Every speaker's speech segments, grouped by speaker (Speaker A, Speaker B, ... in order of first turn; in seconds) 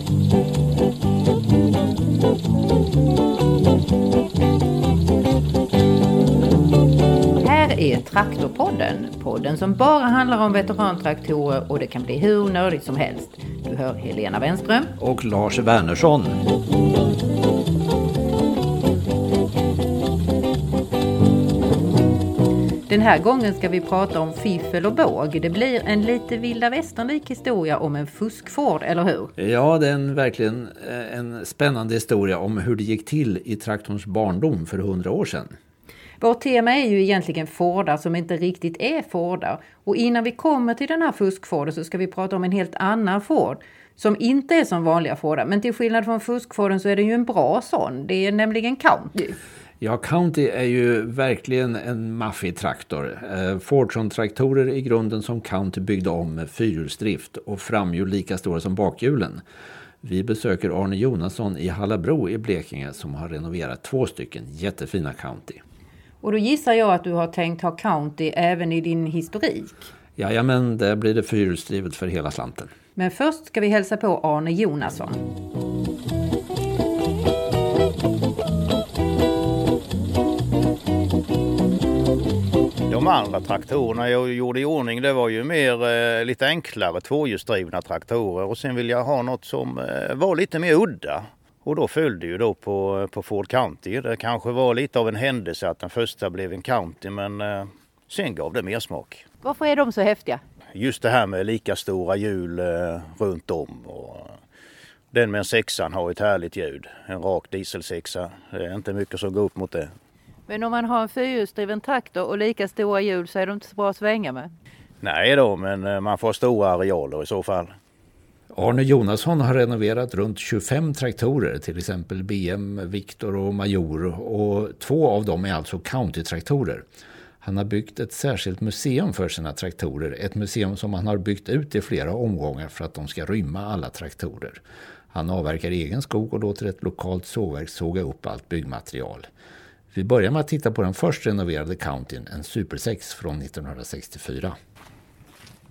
Speaker A: 7.4-14.9, 22.9-29.3, 36.2-49.4, 66.2-69.9, 73.0-75.2, 99.4-100.4, 110.5-114.5
Speaker B: 15.0-16.4, 29.4-35.5, 49.8-59.4, 60.0-65.6, 70.2-72.7, 118.5-126.8, 127.4-134.6, 135.1-139.3, 139.9-144.6
Speaker C: 82.9-99.2, 100.7-104.4, 105.1-109.9, 115.0-117.7